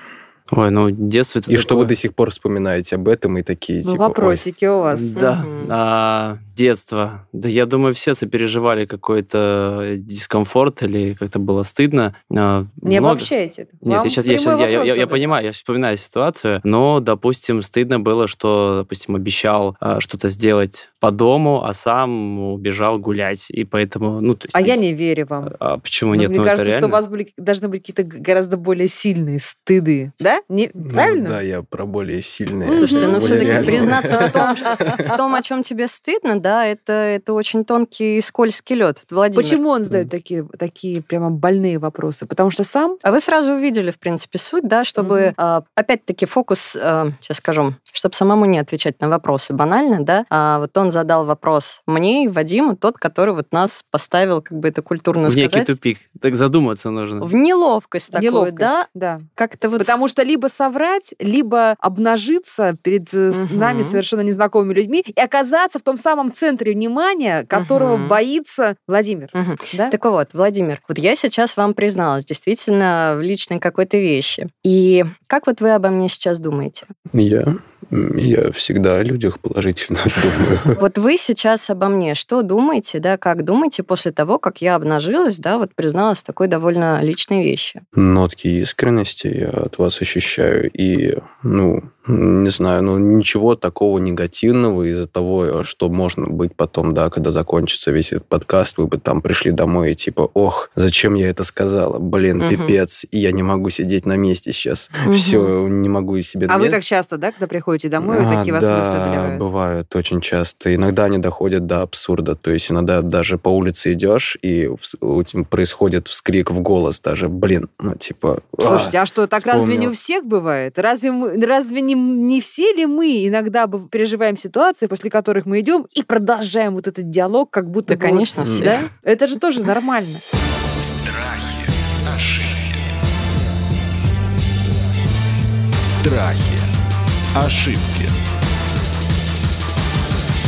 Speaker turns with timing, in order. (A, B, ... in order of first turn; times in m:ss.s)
0:00.5-0:01.9 A
0:01.5-0:04.4 B
0:03.8-0:05.2 C
0:04.9-0:13.3 A
0:05.2-0:05.8 D
0:12.8-0:15.2 C
0:13.8-0:24.8 A
0:24.5-0:25.5 C
0:25.5-0:27.0 A
0:26.1-0:31.4 C
0:30.8-0:35.0 B
0:32.6-0:35.1 C
0:32.8-0:39.6 D
0:39.3-0:43.0 C
0:43.0-0:55.8 D
0:45.0-0:45.3 C
0:55.3-0:57.3 A
0:57.2-0:58.9 D
0:58.1-0:59.3 C
0:59.4-1:00.0 D
0:59.8-1:09.9 C
1:03.3-1:04.0 D
1:07.5-1:08.2 D
1:09.3-1:16.9 D
1:17.1-1:20.8 B
1:20.8-1:27.8 D
1:28.0-1:46.8 B
1:42.4-1:42.8 D
1:45.0-1:45.5 D
1:46.5-1:49.4 C
1:48.0-1:59.9 B
1:58.6-2:10.2 C
2:07.9-2:08.8 D
2:08.4-2:08.8 B
2:11.1-2:12.7 E
2:15.8-2:16.7 E
2:17.3-2:18.1 E